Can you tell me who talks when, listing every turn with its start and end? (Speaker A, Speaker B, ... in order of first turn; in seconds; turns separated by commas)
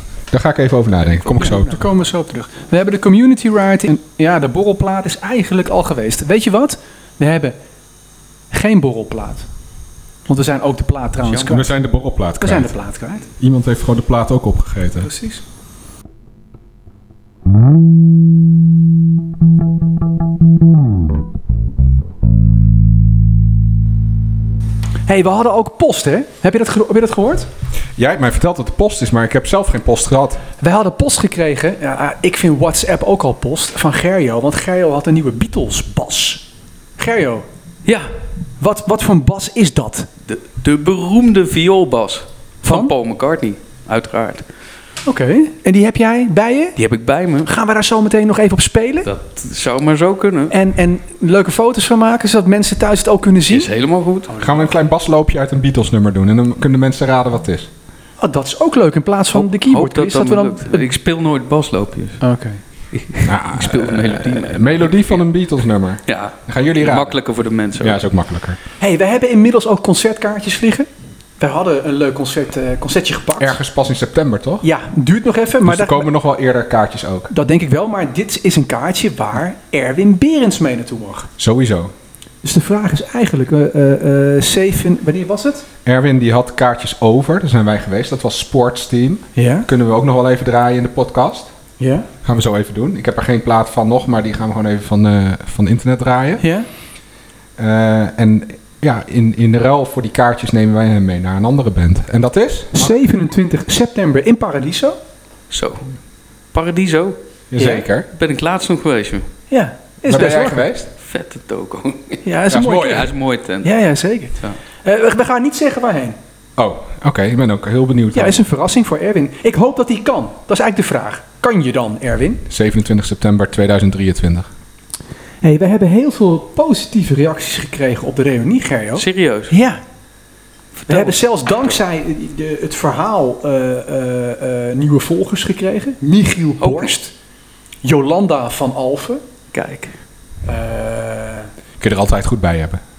Speaker A: 0.3-1.8, Speaker B: 1.4-7.6, Speaker B: 8.5-9.4, Speaker B: 10.3-11.7, Speaker C: 11.2-11.6, Speaker A: 11.5-12.7, Speaker B: 12.4-13.3, Speaker A: 13.4-15.1, Speaker B: 15.0-15.4, Speaker B: 25.1-27.5, Speaker A: 27.9-30.4, Speaker B: 30.6-36.4, Speaker B: 37.0-37.5, Speaker B: 38.6-40.1, Speaker C: 40.3-44.5, Speaker B: 42.6-42.9, Speaker B: 45.0-46.8, Speaker C: 46.8-47.5, Speaker B: 47.4-49.1, Speaker C: 49.0-50.5, Speaker B: 50.5-53.7, Speaker C: 53.5-54.3, Speaker B: 54.3-54.6, Speaker A: 54.4-57.7, Speaker B: 58.2-60.9, Speaker C: 59.3-62.2, Speaker B: 62.2-62.6, Speaker C: 62.9-65.2, Speaker A: 63.2-67.2, Speaker C: 66.1-68.0, Speaker A: 67.8-68.6, Speaker B: 68.8-70.9, Speaker B: 71.4-73.6, Speaker A: 73.4-74.7, Speaker B: 74.6-76.1, Speaker A: 75.6-77.3, Speaker B: 77.3-81.3, Speaker A: 81.4-81.9, Speaker B: 82.4-85.7, Speaker A: 85.8-91.5, Speaker B: 89.3-89.7, Speaker B: 91.8-92.1, Speaker A: 92.2-96.4, Speaker B: 96.4-96.7, Speaker A: 97.6-102.9, Speaker B: 102.7-105.0, Speaker C: 105.5-105.9, Speaker C: 106.5-107.2, Speaker A: 107.5-108.1, Speaker B: 107.6-107.8, Speaker C: 108.1-109.3, Speaker B: 109.5-110.7, Speaker A: 110.0-110.9, Speaker C: 111.0-112.2, Speaker B: 112.2-113.1, Speaker A: 112.5-113.1, Speaker C: 112.8-113.7, Speaker B: 113.6-116.2, Speaker A: 116.6-118.4, Speaker B: 118.1-122.4, Speaker A: 122.5-124.5, Speaker B: 125.4-129.8, Speaker C: 128.9-129.5, Speaker C: 130.8-131.7, Speaker B: 130.9-137.1, Speaker C: 136.6-136.9, Speaker B: 137.8-139.2, Speaker C: 139.5-139.9, Speaker B: 140.4-141.5, Speaker A: 141.8-142.8